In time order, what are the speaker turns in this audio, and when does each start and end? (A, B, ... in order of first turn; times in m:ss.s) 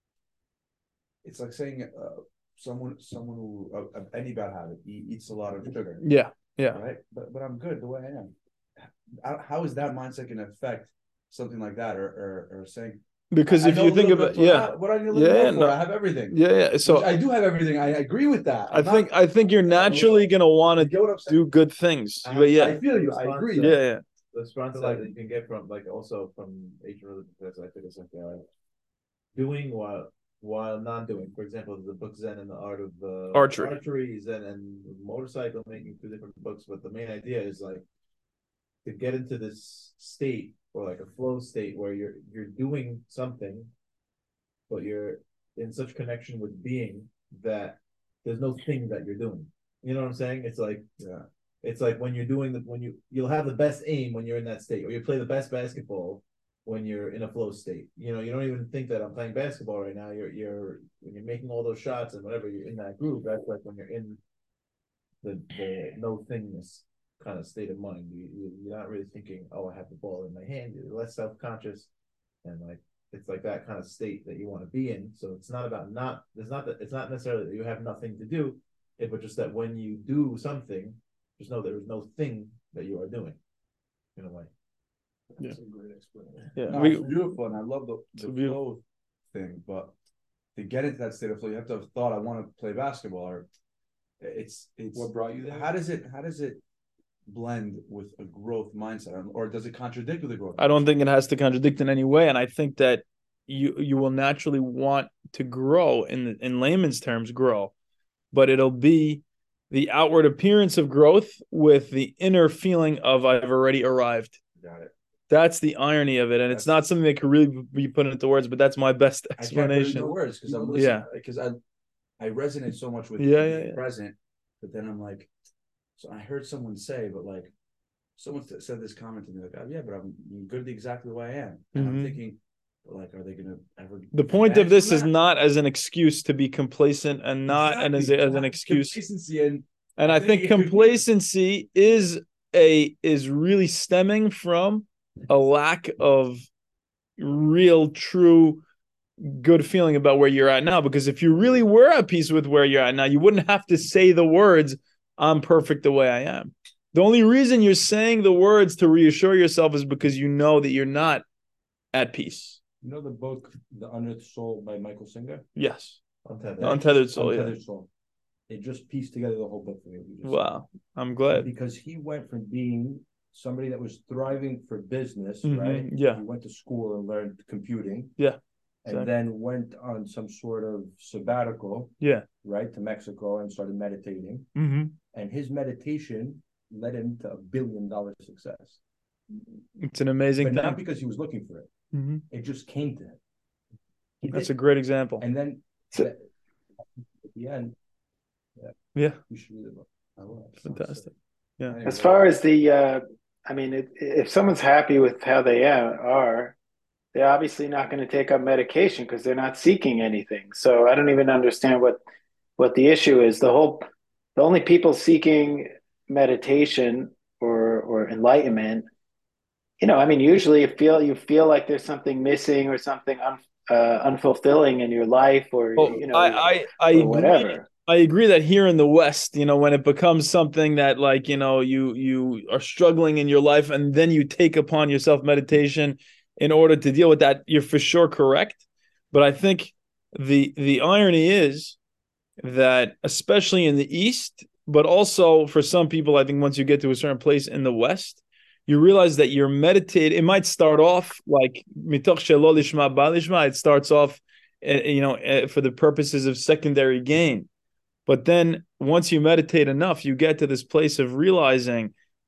0:01.2-0:06.0 A
0:06.0-0:06.8 B
0:06.7-0:21.4 A
0:13.3-0:17.1 B
0:18.7-0:22.8 B
0:22.2-0:23.8 C
0:22.3-0:23.8 A
0:23.6-0:24.0 B
0:24.3-0:28.4 C
0:24.7-0:25.1 A
0:29.3-0:37.8 C
0:33.3-0:33.7 B
0:38.8-0:43.7 C
0:44.7-0:50.8 C
0:51.0-0:51.2 A
0:51.6-1:04.2 C
1:05.2-1:11.9 C
1:12.4-1:23.4 C
1:24.2-1:24.5 C
1:25.3-1:26.6 D
1:26.6-1:27.1 B
1:26.6-1:29.9 A
1:28.2-1:28.6 B
1:30.5-1:33.5 A
1:34.2-1:36.6 A
1:34.9-1:35.8 D
1:37.3-1:40.8 A
1:40.6-1:47.7 B
1:48.3-1:54.4 B
1:54.5-1:54.9 A
1:55.3-2:00.1 B
1:56.5-1:56.8 A
1:59.4-2:01.6 A
2:00.4-2:01.0 D
2:00.7-2:01.1 B
2:02.2-2:05.3 A
2:03.2-2:03.8 B
2:06.0-2:07.5 A
2:08.2-2:15.1 A
2:11.7-2:12.2 B
2:14.1-2:19.0 B
2:17.5-2:21.0 A
2:20.0-2:26.5 B
2:27.2-2:28.6 B
2:29.2-2:41.2 B
2:41.9-2:42.6 B
2:42.8-2:45.4 D
2:45.6-2:46.0 B
2:46.2-2:46.8 C
2:46.6-2:47.6 B
2:46.6-2:47.9 D
2:48.5-2:50.4 D
2:50.2-2:51.5 B
2:51.3-2:58.1 D
2:55.4-2:56.2 B
2:58.2-2:59.1 B
2:58.8-3:04.5 D
3:02.0-3:02.2 B
3:04.6-3:04.9 B
3:05.1-3:08.8 D
3:09.8-3:10.8 B
3:10.4-3:11.7 D
3:11.9-3:12.2 B
3:12.3-3:13.2 D
3:14.3-3:15.2 B
3:15.2-3:16.3 D
3:17.2-3:17.7 D
3:19.3-3:21.0 D
3:20.6-3:21.8 B
3:21.7-3:22.2 A
3:21.7-3:22.2 D
3:21.8-3:26.5 E
3:27.1-3:32.0 E
3:32.6-3:38.9 E
3:39.8-3:47.7 E
3:45.8-4:01.8 B
4:02.4-4:17.5 B
4:18.0-4:21.9 B